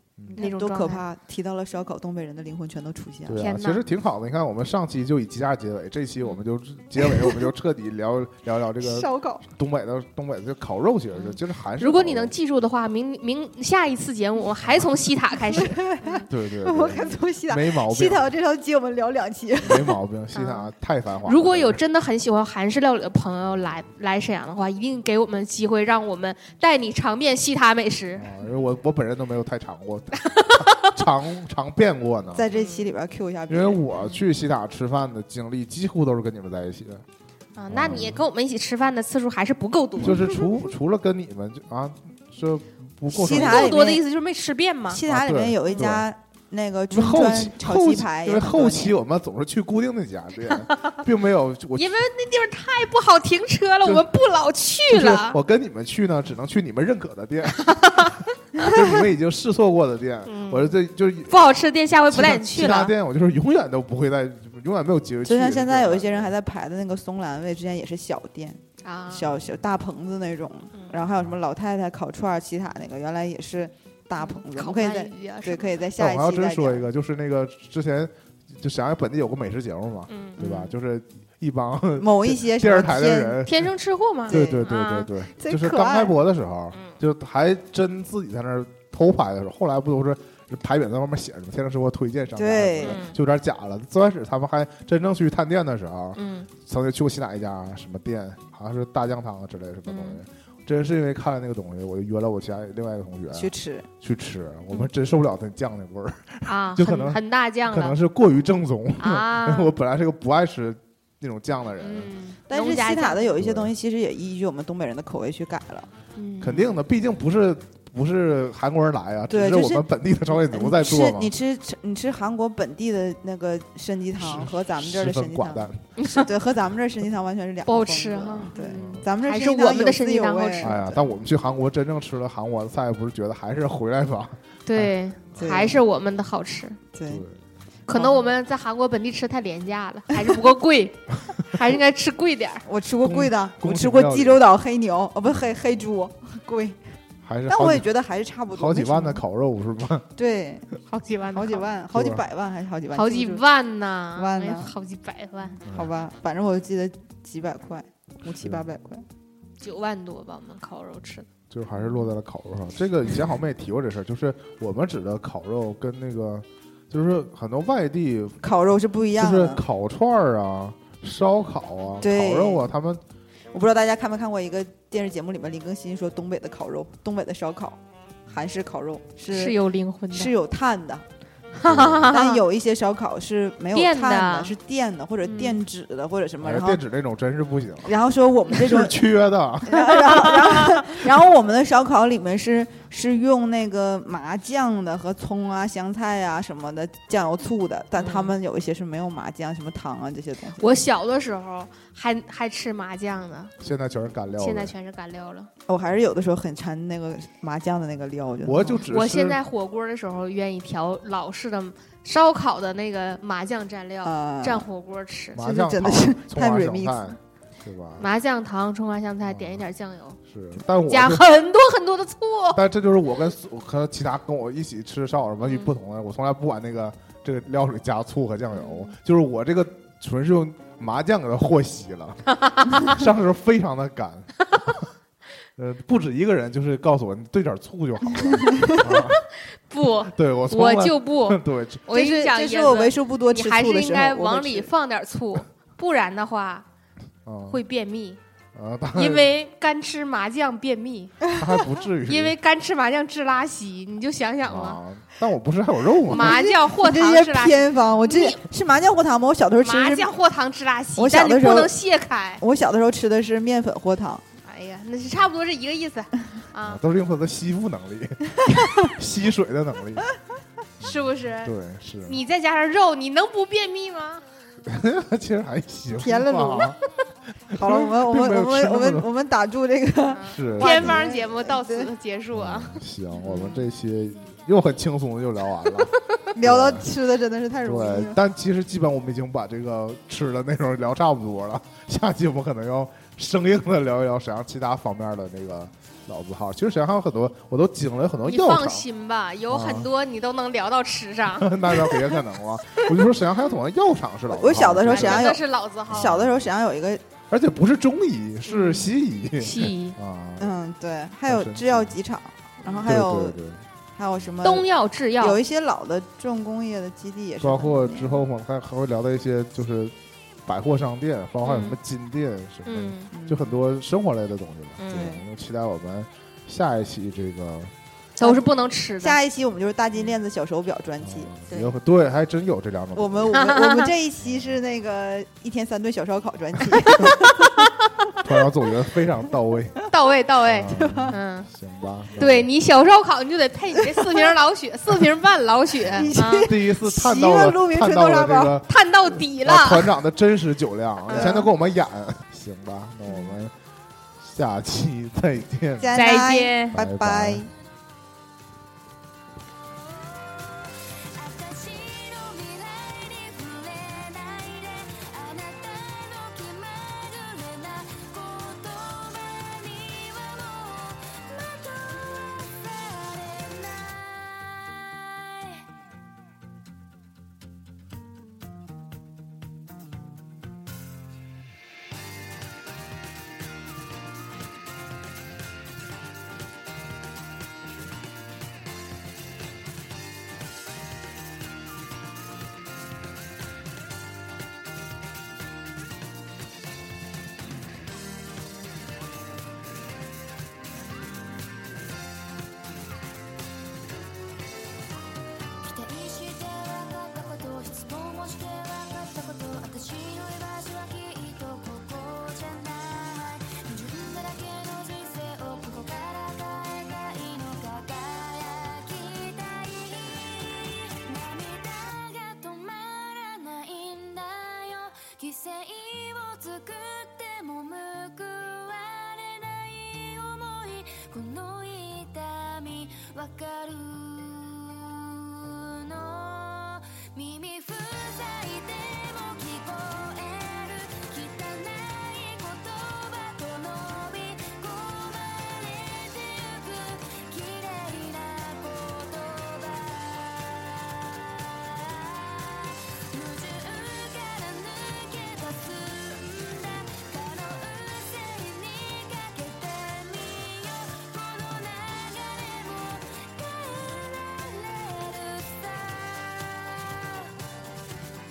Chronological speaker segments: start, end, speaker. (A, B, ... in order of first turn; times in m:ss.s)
0:00.3-0:03.4 A
0:00.4-0:01.0 B
0:03.3-0:12.3 C
0:03.4-0:03.8 B
0:08.8-0:09.4 A
0:11.2-0:16.3 B
0:15.5-0:20.0 A
0:16.3-0:18.3 C
0:19.6-0:21.8 C
0:20.3-0:20.7 B
0:21.2-0:28.3 B
0:28.2-0:32.5 C
0:30.2-0:30.9 B
0:32.3-0:33.8 A
0:32.5-0:32.9 B
0:33.5-0:37.0 C
0:37.6-0:40.4 B
0:37.7-0:38.2 C
0:40.0-0:43.9 C
0:43.1-0:44.0 A
0:43.3-0:45.0 B
0:44.9-0:49.0 A
0:45.0-0:46.1 C
0:46.9-0:51.9 C
0:50.4-0:51.0 B
0:51.8-0:55.4 B
0:53.8-0:54.1 C
0:54.9-1:01.4 C
0:57.6-0:58.7 B
1:00.3-1:00.8 B
1:01.3-1:02.9 B
1:02.1-1:06.3 C
1:05.2-1:16.9 A
1:08.8-1:09.3 B
1:14.2-1:15.7 B
1:16.0-1:23.7 C
1:20.1-1:20.4 B
1:20.4-1:20.7 A
1:22.0-1:23.4 A
1:23.4-1:25.1 B
1:24.3-1:24.7 A
1:24.3-1:52.1 C
1:25.4-1:26.2 A
1:26.7-1:27.0 B
1:32.4-1:33.0 A
1:32.8-1:33.2 B
1:36.1-1:36.5 B
1:39.9-1:40.2 B
1:43.3-1:43.9 A
1:46.4-1:48.0 B
1:49.0-1:49.7 B
1:51.8-1:53.3 B
1:52.5-1:55.9 A
1:53.3-1:53.7 C
1:56.2-1:56.7 B
1:56.4-2:01.3 C
1:59.3-2:11.0 A
2:04.2-2:05.8 C
2:06.0-2:06.3 B
2:07.7-2:10.7 B
2:08.7-2:09.0 C
2:10.6-2:14.9 C
2:14.6-2:16.8 B
2:15.4-2:15.8 A
2:16.9-2:17.2 A
2:17.0-2:17.4 C
2:17.9-2:22.6 B
2:17.9-2:18.2 A
2:22.7-2:26.8 A
2:23.0-2:24.4 C
2:27.2-2:27.9 C
2:27.5-2:29.2 A
2:28.5-2:30.1 C
2:30.2-2:30.7 A
2:30.8-2:31.7 B
2:31.3-2:33.4 A
2:31.9-2:32.2 C
2:32.9-2:35.6 B
2:34.2-2:34.7 A
2:35.6-2:35.9 C
2:35.7-2:39.0 A
2:38.3-2:38.6 C
2:39.6-2:41.3 B
2:41.5-2:48.5 C
2:48.4-2:49.6 A
2:49.2-2:53.0 C
2:52.0-2:52.7 A
2:53.5-2:59.6 A
2:59.3-3:00.3 B
3:00.1-3:01.0 A
3:01.6-3:02.4 B
3:01.6-3:02.1 C
3:02.0-3:06.8 A
3:03.7-3:04.6 B
3:05.2-3:05.6 B
3:06.4-3:07.9 C
3:07.8-3:09.0 A
3:08.5-3:10.5 C
3:09.6-3:20.8 A
3:09.8-3:11.0 B
3:18.0-3:18.3 B
3:20.6-3:23.5 B
3:23.6-3:24.7 C
3:24.3-3:25.5 B
3:25.7-3:28.8 A
3:28.4-3:29.4 C
3:28.9-3:35.4 B
3:34.0-3:34.6 A
3:35.3-3:38.1 C
3:35.4-3:37.1 A
3:38.0-3:40.2 B
3:39.3-3:39.6 C
3:40.3-3:41.2 C
3:40.9-3:42.6 B
3:42.5-3:54.8 C
3:45.4-3:45.7 B
3:48.6-3:48.9 B
3:52.3-3:53.0 B
3:55.6-3:59.2 C
3:59.7-4:06.6 B
4:00.1-4:01.8 C
4:01.9-4:04.7 A
4:07.3-4:07.6 C
4:07.5-4:08.2 B
4:08.5-4:09.3 C
4:08.9-4:11.2 B
4:11.3-4:12.3 C
4:12.1-4:14.8 B
4:14.4-4:16.4 C
4:16.1-4:18.4 B
4:16.1-4:20.1 A
4:19.6-4:22.4 B
4:21.0-4:21.8 A
4:22.4-4:24.2 A
4:24.4-4:26.8 B
4:26.6-4:30.1 C
4:28.4-4:28.9 A
4:30.8-4:32.2 C
4:30.8-4:31.5 B
4:32.0-4:34.2 B
4:34.6-4:36.8 C
4:35.9-4:36.7 A
4:37.5-4:39.1 C
4:37.5-4:41.9 A
4:40.1-4:43.6 B
4:40.3-4:41.0 C
4:42.3-4:46.9 C
4:46.3-4:48.2 A
4:47.6-4:58.9 C
4:58.2-5:01.9 B
4:59.5-4:59.9 C
5:01.3-5:06.4 C
5:04.3-5:07.0 A
5:04.9-5:06.2 B
5:07.3-5:10.6 C
5:08.4-5:10.0 B
5:10.4-5:13.4 A
5:11.3-5:11.9 C
5:12.7-5:13.6 C
5:14.0-5:18.3 A
5:14.4-5:15.4 B
5:17.4-5:19.9 C
5:20.4-5:27.7 C
5:21.4-5:21.8 B
5:22.6-5:23.1 B
5:23.1-5:23.6 A
5:24.8-5:25.2 B
5:24.9-5:25.2 A
5:28.2-5:29.2 B
5:28.2-5:28.4 A
5:29.0-5:31.4 A
5:31.0-5:33.3 C
5:33.0-5:37.6 A
5:33.3-5:33.9 B
5:34.2-5:34.6 C
5:36.8-5:38.1 B
5:38.2-5:39.8 C
5:39.9-5:41.5 B
5:40.4-5:42.5 C
5:40.7-5:41.1 A
5:42.2-5:46.5 B
5:45.8-5:53.5 C
5:45.9-5:48.6 A
5:48.7-5:49.9 B
5:51.1-5:51.4 B
5:51.1-5:51.5 A
5:54.2-5:55.9 C
5:55.8-5:57.5 A
5:55.9-5:56.8 B
5:56.7-5:57.5 C
5:59.3-6:15.7 D
6:45.6-7:47.5 D